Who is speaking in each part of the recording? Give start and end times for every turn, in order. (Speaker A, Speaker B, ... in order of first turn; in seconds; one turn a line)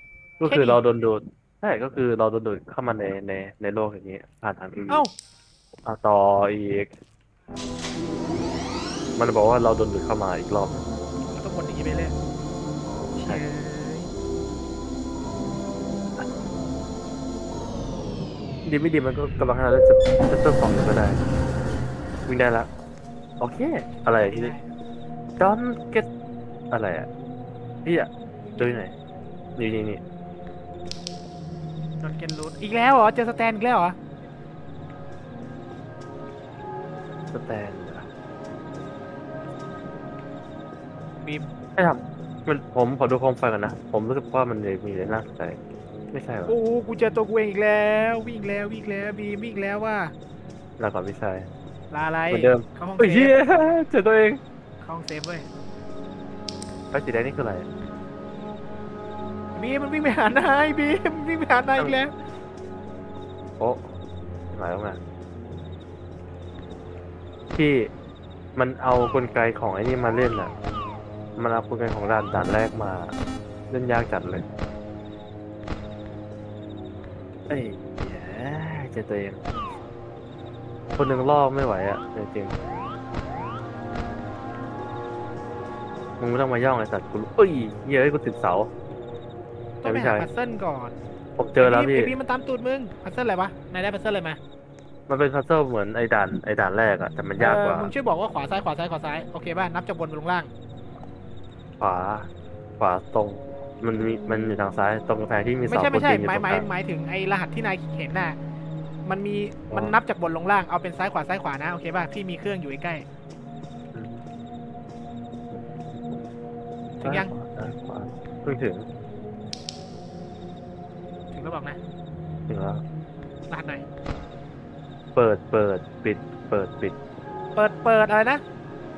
Speaker A: 0.4-5.0
Speaker B: 0.4-0.8
Speaker A: 5.8-6.9
Speaker A: 9.2-10.8
Speaker B: 11.3-12.1
Speaker B: 13.2-14.1
Speaker A: 18.6-21.2
Speaker A: 22.3-22.7
Speaker A: 23.4-24.5
Speaker B: 24.2-24.7
Speaker A: 25.4-26.1
Speaker A: 26.7-27.1
Speaker A: 27.8-28.9
Speaker A: 29.6-30.0
Speaker B: 32.0-34.0
Speaker A: 37.3-38.0
Speaker B: 41.2-41.5
Speaker A: 41.8-45.6
Speaker A: 46.1-46.5
Speaker B: 46.5-50.1
Speaker A: 50.8-51.5
Speaker B: 51.9-53.4
Speaker A: 52.3-54.4
Speaker B: 54.8-55.5
Speaker A: 56.9-57.7
Speaker B: 59.5-62.1
Speaker A: 63.6-63.9
Speaker A: 64.5-65.0
Speaker A: 67.5-67.9
Speaker A: 68.5-70.5
Speaker A: 71.4-73.1
Speaker A: 73.7-74.4
Speaker A: 77.5-79.4
Speaker A: 81.0-82.5
Speaker A: 86.2-88.7
Speaker B: 89.8-91.0
Speaker A: 89.8-90.3
Speaker A: 91.4-92.1
Speaker B: 91.6-94.4
Speaker A: 95.1-97.9
Speaker B: 97.4-100.5
Speaker A: 101.8-106.7
Speaker B: 105.7-108.4
Speaker B: 109.0-113.0
Speaker A: 109.7-110.0
Speaker B: 117.0-117.3
Speaker A: 117.0-118.9
Speaker B: 121.3-121.8
Speaker A: 122.5-122.8
Speaker B: 123.5-123.8
Speaker A: 125.1-127.0
Speaker B: 127.5-128.4